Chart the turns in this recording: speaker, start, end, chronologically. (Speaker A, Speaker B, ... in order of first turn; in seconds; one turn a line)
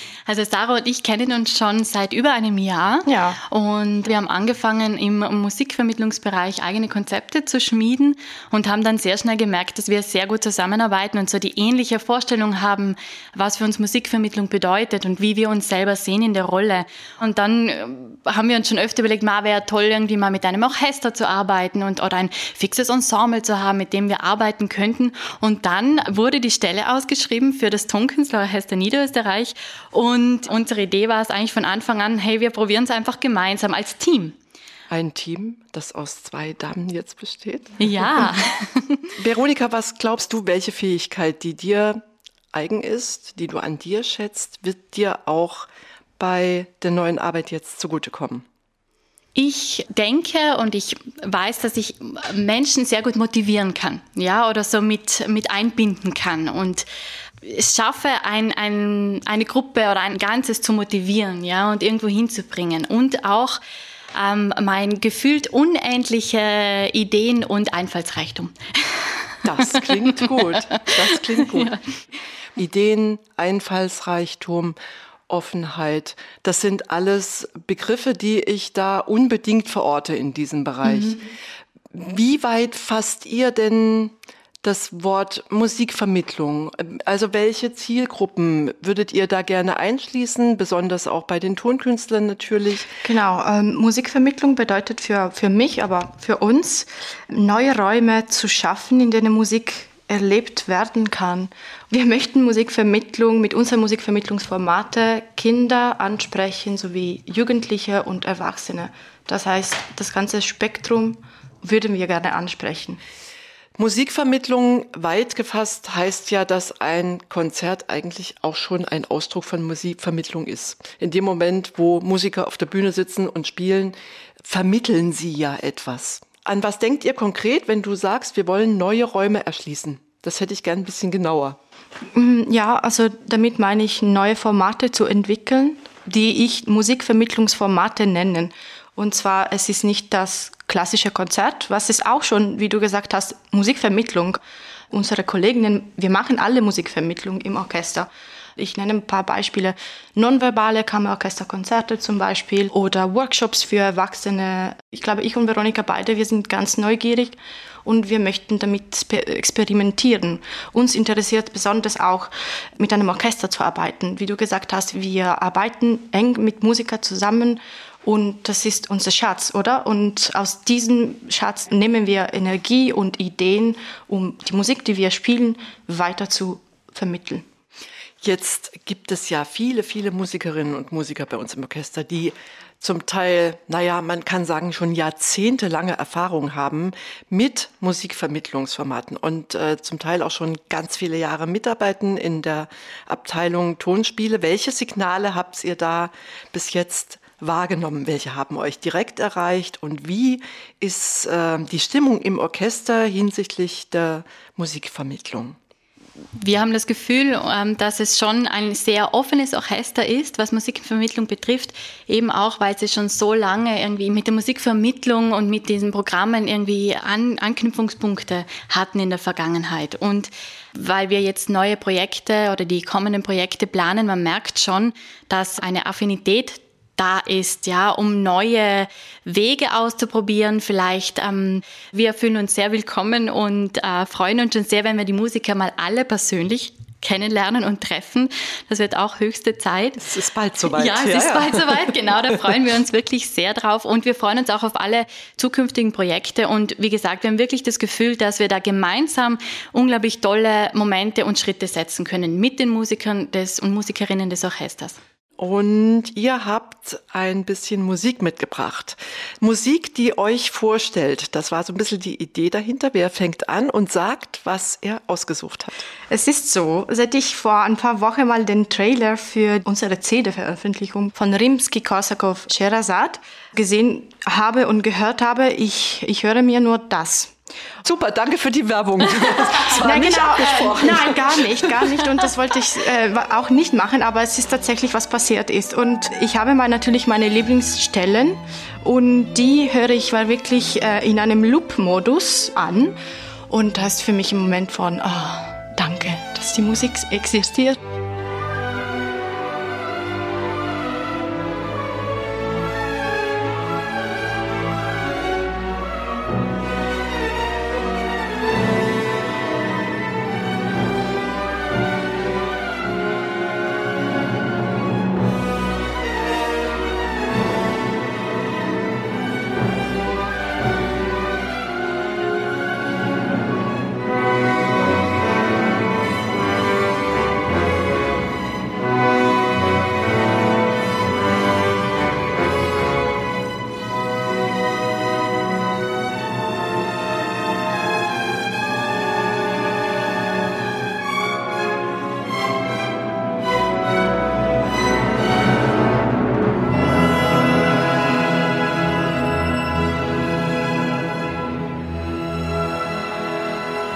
Speaker A: 0.3-34.4
Speaker B: 3.1-3.4
Speaker C: 34.9-38.4
Speaker A: 37.8-39.1
Speaker C: 39.2-48.5
Speaker A: 49.4-56.9
Speaker A: 57.4-63.6
Speaker A: 64.1-71.8
Speaker C: 69.4-71.8
Speaker C: 72.6-74.8
Speaker C: 75.3-81.3
Speaker C: 81.9-93.0
Speaker B: 93.0-113.0
Speaker C: 113.8-131.6
Speaker B: 132.1-144.4
Speaker B: 144.9-177.4
Speaker C: 178.2-205.6
Speaker A: 206.4-240.0
Speaker C: 240.0-242.4
Speaker A: 240.7-255.0
Speaker C: 255.4-265.7
Speaker B: 266.1-277.3
Speaker C: 277.8-282.1
Speaker B: 279.7-293.0
Speaker B: 293.5-297.8